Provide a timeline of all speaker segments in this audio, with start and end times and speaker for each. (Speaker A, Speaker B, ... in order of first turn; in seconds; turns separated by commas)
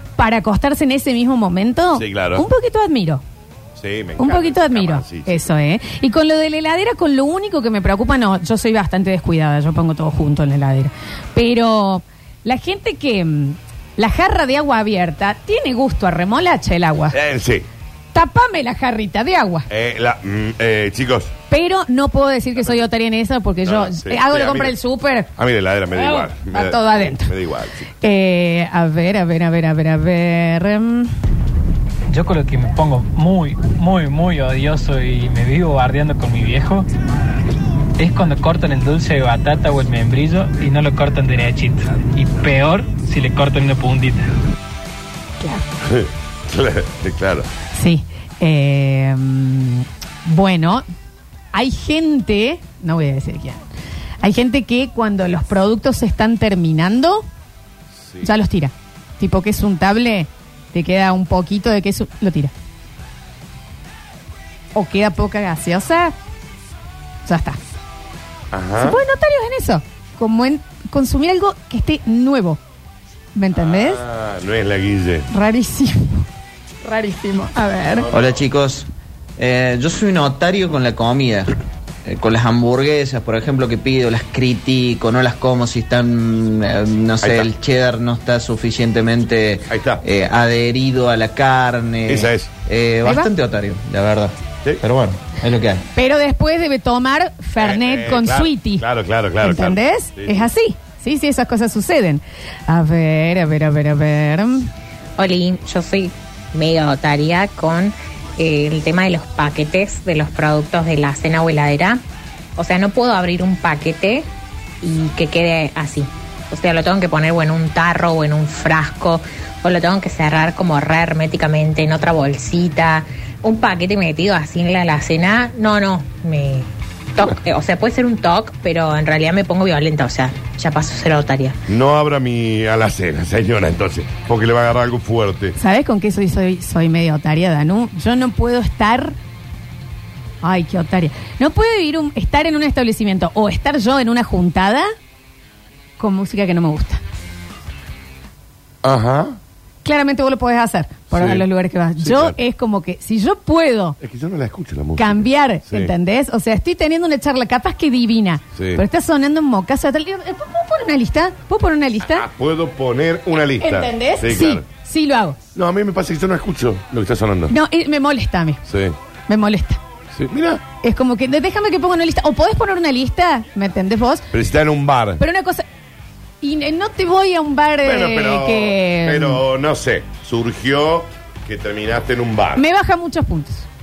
Speaker A: 0.2-3.2, Speaker B: 1.9-2.5, Speaker B: 3.8-5.5, Speaker A: 4.2-17.2, Speaker B: 17.1-17.7, Speaker A: 18.1-19.7, Speaker B: 19.7-21.3, Speaker A: 21.5-25.3, Speaker B: 22.6-22.9, Speaker B: 23.6-24.8, Speaker B: 25.4-27.9, Speaker A: 25.9-27.3, Speaker A: 28.0-31.1, Speaker C: 32.1-36.9, Speaker C: 38.0-44.3, Speaker B: 45.8-47.5, Speaker A: 47.7-50.9, Speaker A: 51.5-53.6, Speaker A: 54.2-57.3, Speaker A: 58.2-62.5, Speaker A: 64.8-66.1, Speaker A: 67.3-67.6, Speaker B: 68.5-69.0, Speaker A: 68.8-72.6, Speaker A: 73.3-74.0, Speaker B: 73.5-75.3, Speaker A: 75.3-76.3, Speaker A: 76.8-78.1, Speaker B: 78.0-78.5, Speaker D: 78.1-81.5, Speaker D: 82.0-95.8, Speaker B: 87.2-87.5, Speaker B: 89.7-90.0, Speaker B: 92.1-92.5, Speaker A: 93.0-93.3, Speaker A: 96.0-98.8, Speaker B: 97.6-100.5, Speaker A: 99.4-104.7, Speaker E: 105.2-112.0, Speaker E: 112.6-114.3, Speaker E: 114.8-131.6, Speaker B: 131.7-135.6, Speaker A: 135.6-139.2, Speaker A: 140.4-144.9, Speaker A: 146.0-147.0, Speaker B: 148.8-149.4, Speaker A: 149.8-154.0, Speaker B: 151.1-151.5, Speaker B: 152.0-152.4, Speaker B: 154.0-155.9, Speaker A: 155.0-162.3, Speaker B: 158.6-158.8, Speaker B: 162.0-164.6, Speaker A: 163.6-165.4, Speaker B: 165.6-167.5, Speaker A: 167.5-168.6, Speaker B: 168.7-169.0, Speaker A: 169.3-169.8, Speaker B: 170.1-170.6, Speaker A: 170.8-174.3, Speaker B: 174.3-175.2, Speaker A: 175.2-175.7, Speaker A: 176.4-179.4, Speaker B: 177.8-182.6, Speaker A: 182.6-183.7